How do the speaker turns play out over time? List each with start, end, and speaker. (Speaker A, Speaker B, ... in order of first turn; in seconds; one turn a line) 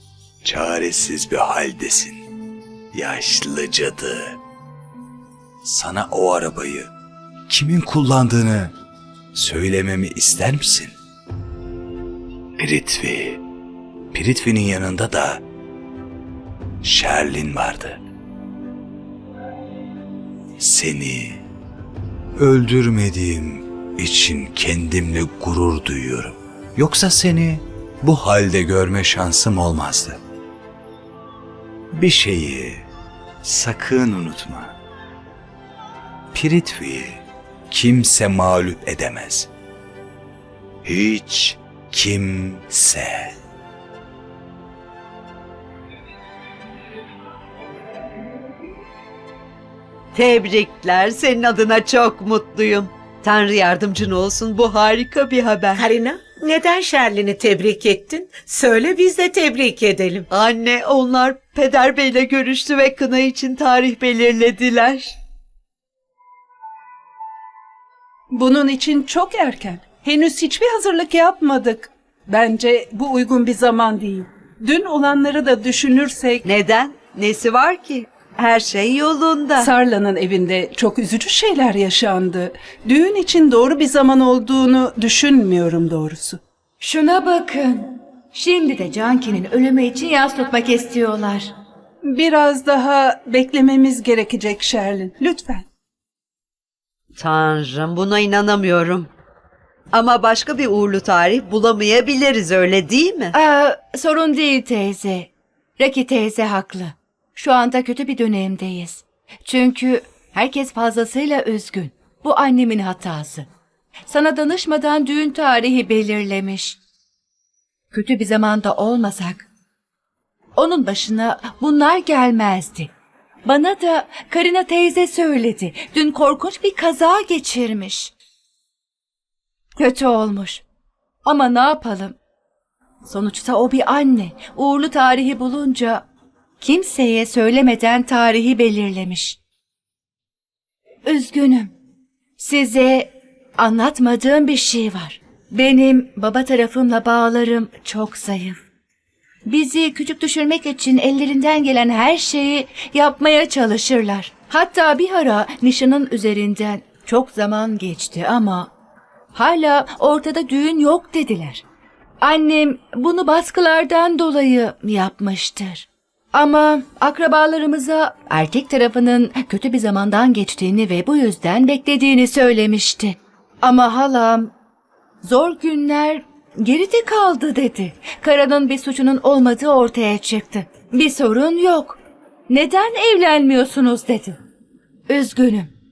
Speaker A: 0.4-2.2
Speaker A: 2.9-4.4
Speaker A: 5.6-6.9
Speaker A: 7.5-8.7
Speaker A: 9.3-10.9
Speaker A: 12.6-13.4
Speaker A: 14.1-15.4
Speaker A: 16.8-18.0
Speaker A: 20.6-21.4
Speaker A: 22.4-30.2
Speaker A: 31.9-32.8
Speaker A: 33.4-34.7
Speaker A: 36.3-39.5
Speaker A: 40.8-43.3
Speaker B: 50.1-55.9
Speaker C: 55.8-60.2
Speaker B: 60.3-65.2
Speaker D: 68.3-76.4
Speaker B: 76.4-79.7
Speaker D: 79.6-86.4
Speaker E: 86.8-91.5
Speaker D: 92.1-95.6
Speaker B: 97.2-99.1
Speaker B: 99.9-103.3
Speaker E: 103.3-113.5
Speaker E: 114.1-116.8
Speaker E: 117.9-119.5
Speaker E: 120.5-122.9
Speaker E: 123.4-128.1
Speaker E: 129.8-130.6
Speaker E: 131.2-132.2
Speaker E: 133.0-136.0
Speaker E: 136.6-139.4
Speaker E: 141.0-141.7
Speaker E: 142.4-148.6
Speaker E: 149.4-158.7
Speaker E: 159.3-161.6
Speaker E: 162.2-174.5
Speaker E: 175.2-184.4
Speaker E: 185.1-185.7